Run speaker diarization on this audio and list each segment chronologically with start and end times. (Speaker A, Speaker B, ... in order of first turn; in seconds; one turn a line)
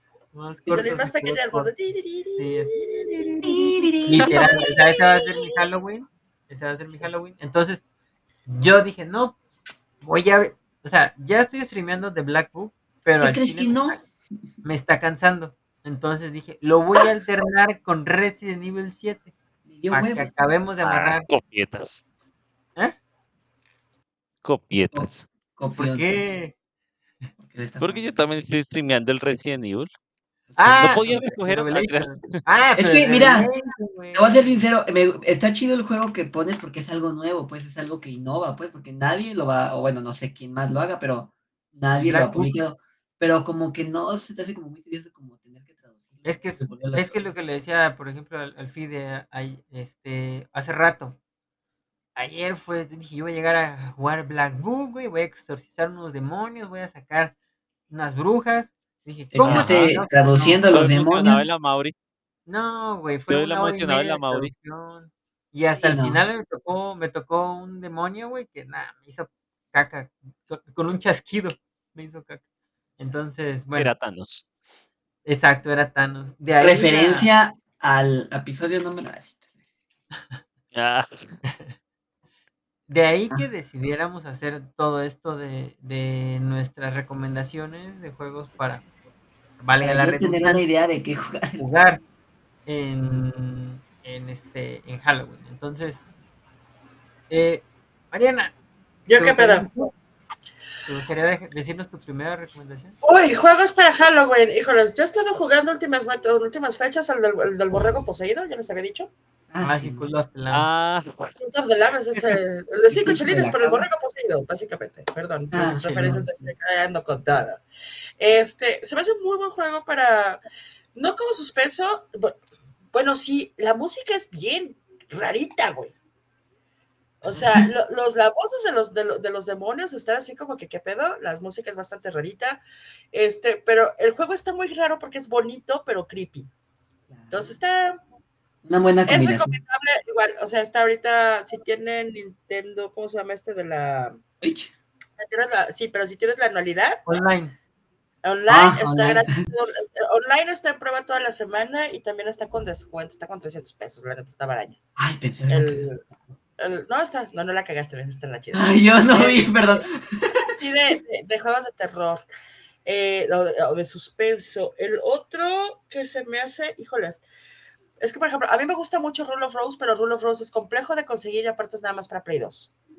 Speaker A: 0.3-1.7
Speaker B: 0.7-3.4
Speaker A: 2.4-3.4
Speaker C: 3.4-4.8
Speaker A: 4.0-7.8
Speaker A: 8.5-9.4
Speaker A: 10.0-14.0
Speaker C: 13.2-14.0
Speaker A: 14.6-19.3
Speaker C: 19.7-20.3
Speaker A: 19.9-21.3
Speaker D: 20.8-22.0
Speaker D: 24.4-25.3
Speaker C: 24.9-26.2
Speaker A: 25.8-26.5
Speaker C: 27.4-28.2
Speaker D: 27.8-29.9
Speaker C: 30.5-31.1
Speaker A: 30.6-34.6
Speaker D: 30.8-32.4
Speaker C: 32.8-33.5
Speaker C: 34.1-47.3
Speaker A: 42.0-42.6
Speaker A: 46.2-51.2
Speaker A: 52.2-57.3
Speaker A: 57.9-60.6
Speaker C: 59.3-61.5
Speaker D: 59.4-60.0
Speaker D: 60.7-61.9
Speaker A: 62.5-72.4
Speaker D: 63.3-64.5
Speaker C: 65.8-66.2
Speaker A: 73.0-73.9
Speaker D: 73.8-74.5
Speaker A: 75.2-77.3
Speaker C: 76.6-79.4
Speaker D: 80.7-81.4
Speaker A: 81.5-81.8
Speaker A: 82.9-88.8
Speaker A: 89.6-90.6
Speaker C: 89.8-91.6
Speaker A: 91.6-92.0
Speaker A: 92.7-96.0
Speaker A: 97.3-98.5
Speaker B: 99.1-99.7
Speaker A: 99.1-99.9
Speaker A: 100.8-103.0
Speaker B: 103.0-109.1
Speaker C: 109.5-110.1
Speaker A: 109.6-110.7
Speaker D: 110.5-111.3
Speaker B: 111.4-117.6
Speaker C: 112.9-113.9
Speaker C: 115.5-116.5
Speaker B: 118.2-120.4
Speaker B: 121.0-122.4
Speaker B: 122.9-125.9
Speaker B: 127.2-132.6
Speaker C: 127.3-127.7
Speaker B: 133.1-136.5
Speaker C: 137.1-137.6
Speaker B: 137.3-138.0
Speaker C: 138.6-139.6
Speaker B: 139.1-144.2
Speaker C: 144.4-144.7
Speaker B: 145.2-147.0
Speaker A: 147.1-147.5
Speaker B: 148.2-154.8
Speaker C: 148.5-149.5
Speaker C: 155.0-155.9
Speaker B: 155.5-156.0
Speaker B: 156.6-159.8
Speaker C: 158.5-160.5
Speaker B: 160.4-162.2
Speaker B: 162.8-167.2
Speaker B: 168.0-172.7